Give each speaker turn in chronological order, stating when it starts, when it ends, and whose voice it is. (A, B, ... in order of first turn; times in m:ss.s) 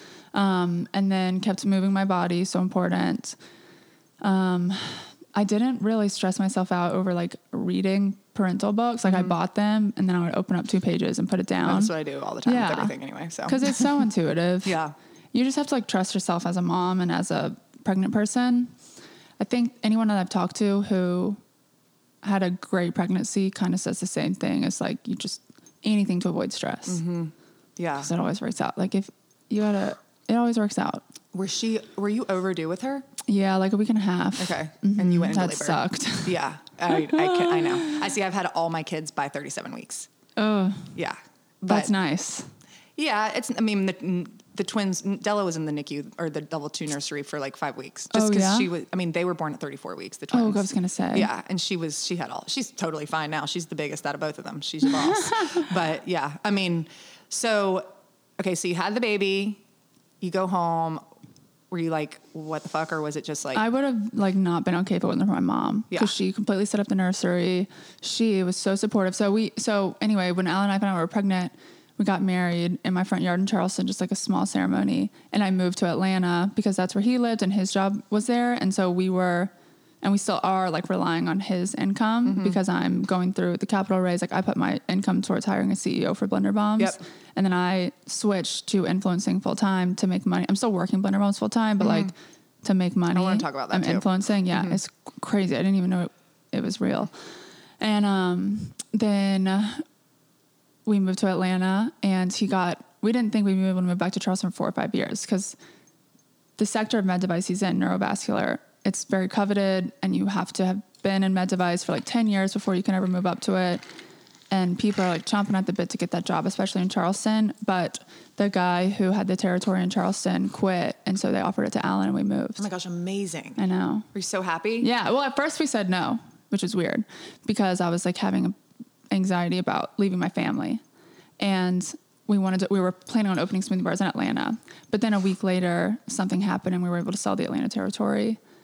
0:00.3-0:03.4 A
0:04.2-0:11.9 A
0:09.0-0:09.3 B
0:11.6-0:13.9 B
0:12.4-0:14.8 A
0:14.6-0:14.9 B
0:15.3-0:18.7 A
0:19.4-0:21.4 A
0:22.2-0:27.0 A
0:26.9-0:28.1 B
0:28.0-0:31.0 A
0:31.3-0:33.0 B
0:33.2-0:38.1 A
0:34.4-0:40.1 B
0:40.4-0:41.0 A
0:40.9-0:41.9 B
0:41.7-0:42.5 A
0:43.0-0:59.6 B
0:48.1-0:48.7 A
0:50.3-0:51.3 A
0:54.8-0:55.7 A
1:00.2-1:01.0 B
1:01.7-1:03.6 B
1:03.5-1:37.1 A
1:22.2-1:22.6 B
1:31.8-1:32.1 B
1:33.1-1:34.8 B
1:37.8-1:39.8 A
1:40.8-1:45.6 A
1:46.6-1:53.8 A
1:54.5-2:02.7 A
2:02.6-2:03.6 B
2:03.6-2:04.1 A
2:04.1-2:04.9 B
2:04.8-2:08.6 A
2:09.1-2:10.8 A
2:11.4-2:18.4 A